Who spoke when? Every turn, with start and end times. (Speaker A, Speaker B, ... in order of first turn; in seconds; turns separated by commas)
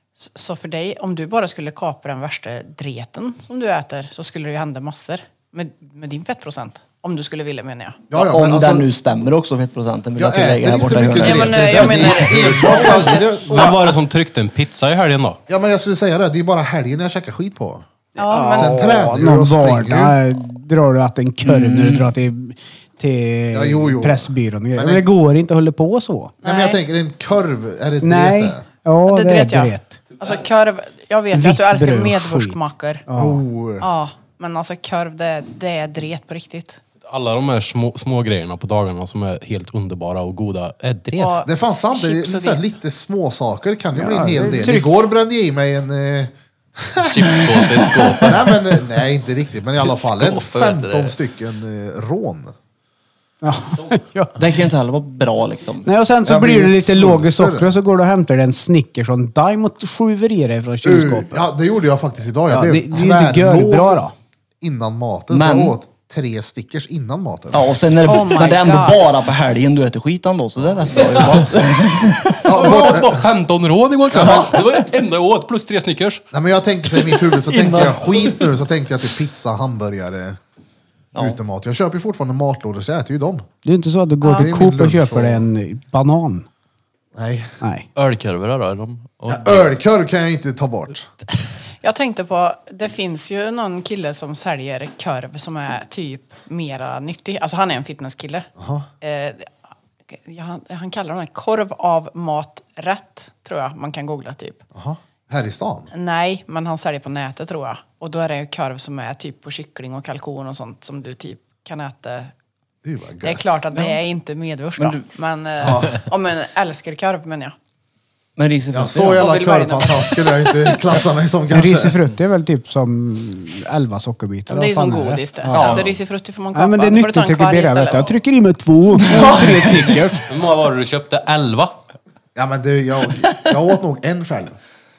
Speaker A: 0.2-8.1, Speaker B: 8.1-8.9, Speaker C: 8.1-12.9, Speaker B: 10.2-13.8, Speaker A: 11.1-13.8, Speaker D: 13.4-15.4, Speaker B: 15.5-17.9, Speaker A: 18.1-19.0, Speaker E: 18.1-26.3, Speaker B: 18.5-20.2, Speaker C: 21.6-21.9, Speaker B: 23.5-25.1, Speaker A: 26.4-26.8, Speaker B: 26.4-28.6, Speaker E: 28.0-30.0, Speaker A: 29.1-33.0, Speaker E: 31.3-33.4, Speaker B: 33.1-33.9, Speaker A: 33.8-36.8, Speaker D: 37.0-41.4, Speaker A: 41.2-42.6, Speaker B: 41.4-47.6, Speaker E: 43.9-44.9, Speaker F: 47.0-48.6, Speaker B: 48.2-52.5, Speaker F: 49.8-51.1, Speaker E: 53.4-54.3, Speaker C: 54.4-55.9, Speaker E: 55.8-61.4, Speaker B: 56.2-57.8, Speaker B: 60.8-64.0, Speaker E: 62.5-64.1, Speaker B: 64.6-67.8, Speaker C: 65.3-65.8, Speaker C: 67.5-72.7, Speaker A: 68.0-69.0, Speaker B: 72.4-73.3, Speaker D: 72.5-76.2, Speaker B: 74.1-74.6, Speaker B: 76.3-80.4, Speaker D: 77.0-78.2, Speaker B: 81.2-83.5, Speaker E: 83.6-86.5, Speaker A: 84.2-84.5, Speaker B: 84.3-85.5, Speaker B: 87.1-87.6, Speaker E: 87.6-87.9, Speaker F: 87.9-89.8, Speaker B: 89.3-91.1, Speaker A: 91.8-98.5, Speaker B: 98.6-98.9, Speaker A: 99.0-99.5, Speaker A: 100.1-104.6, Speaker B: 104.7-105.9, Speaker A: 105.9-112.3, Speaker B: 112.8-113.4, Speaker A: 113.2-117.5, Speaker C: 113.7-114.0, Speaker C: 114.8-115.1, Speaker B: 115.6-116.0, Speaker C: 118.4-119.3, Speaker B: 118.7-122.0, Speaker A: 119.2-120.7, Speaker E: 121.5-125.9, Speaker A: 124.5-128.2, Speaker C: 125.5-125.9, Speaker E: 126.5-130.3, Speaker C: 129.0-130.1, Speaker D: 130.3-131.7, Speaker B: 132.3-134.6